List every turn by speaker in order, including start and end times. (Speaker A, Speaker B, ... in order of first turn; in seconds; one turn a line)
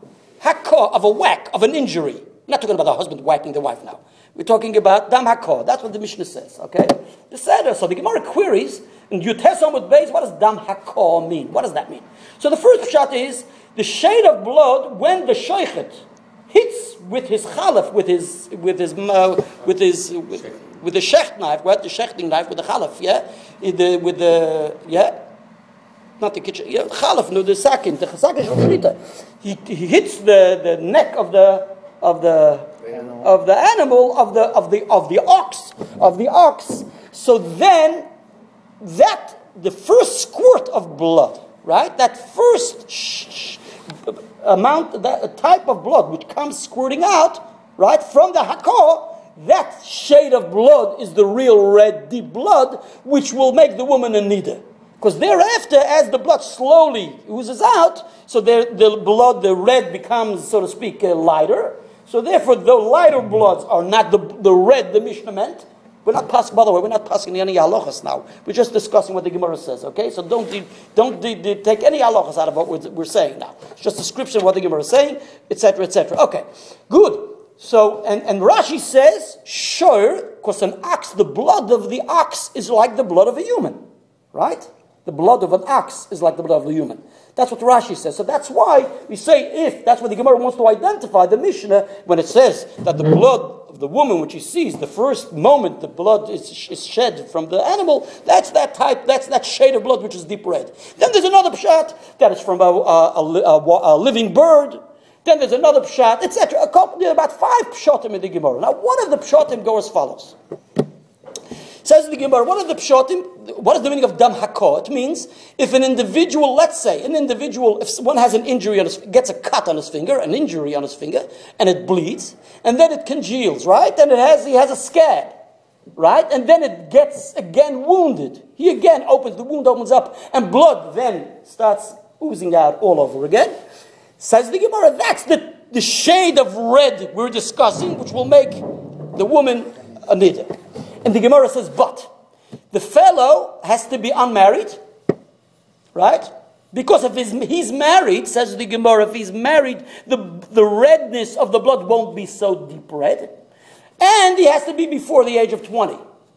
Speaker A: 0.4-25.2
Speaker A: 26.2-38.1
Speaker A: 38.8-83.8
Speaker A: 84.3-110.3
Speaker A: 111.8-125.3
Speaker A: 126.0-133.6
Speaker A: 134.2-142.1
Speaker A: 142.7-144.8
Speaker A: 145.9-153.3
Speaker A: 154.0-156.0